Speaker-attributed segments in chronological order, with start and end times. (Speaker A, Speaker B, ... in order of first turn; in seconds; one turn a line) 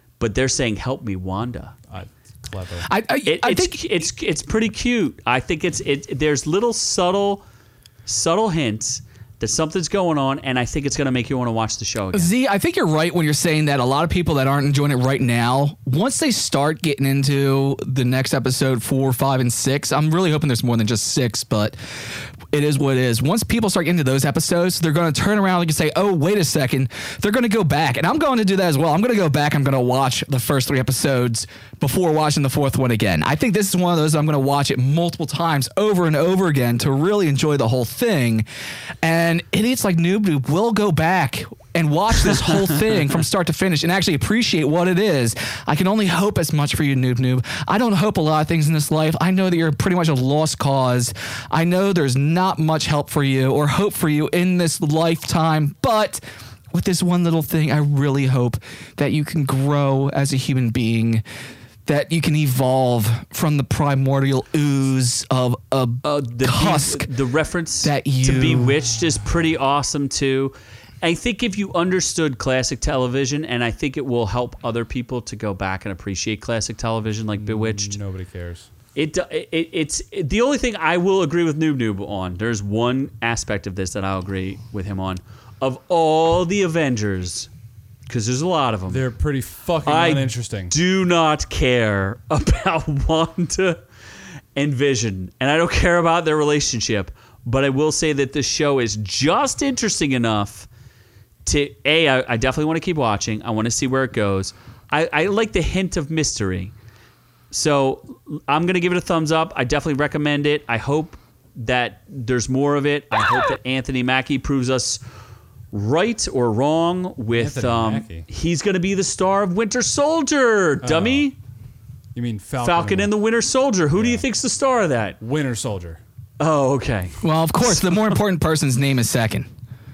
Speaker A: 0.2-1.7
Speaker B: 1.9-2.9
Speaker C: 2.8-4.1
Speaker A: 3.2-7.4
Speaker A: 8.1-12.3
Speaker C: 12.1-21.8
Speaker C: 22.5-38.4
Speaker C: 39.0-61.2
Speaker A: 42.2-42.7
Speaker C: 61.9-67.1
Speaker A: 66.0-78.0
Speaker C: 67.8-68.7
Speaker B: 77.4-78.7
Speaker A: 78.9-87.5
Speaker A: 88.1-89.0
Speaker B: 88.9-90.7
Speaker A: 89.8-93.8
Speaker A: 94.5-100.7
Speaker A: 101.5-106.7
Speaker A: 107.5-115.0
Speaker A: 115.7-121.3
Speaker B: 117.3-118.3
Speaker B: 120.8-121.3
Speaker B: 122.1-123.1
Speaker A: 122.6-125.2
Speaker B: 123.9-124.2
Speaker B: 125.2-126.0
Speaker A: 126.4-127.2
Speaker C: 127.2-129.5
Speaker A: 127.8-128.1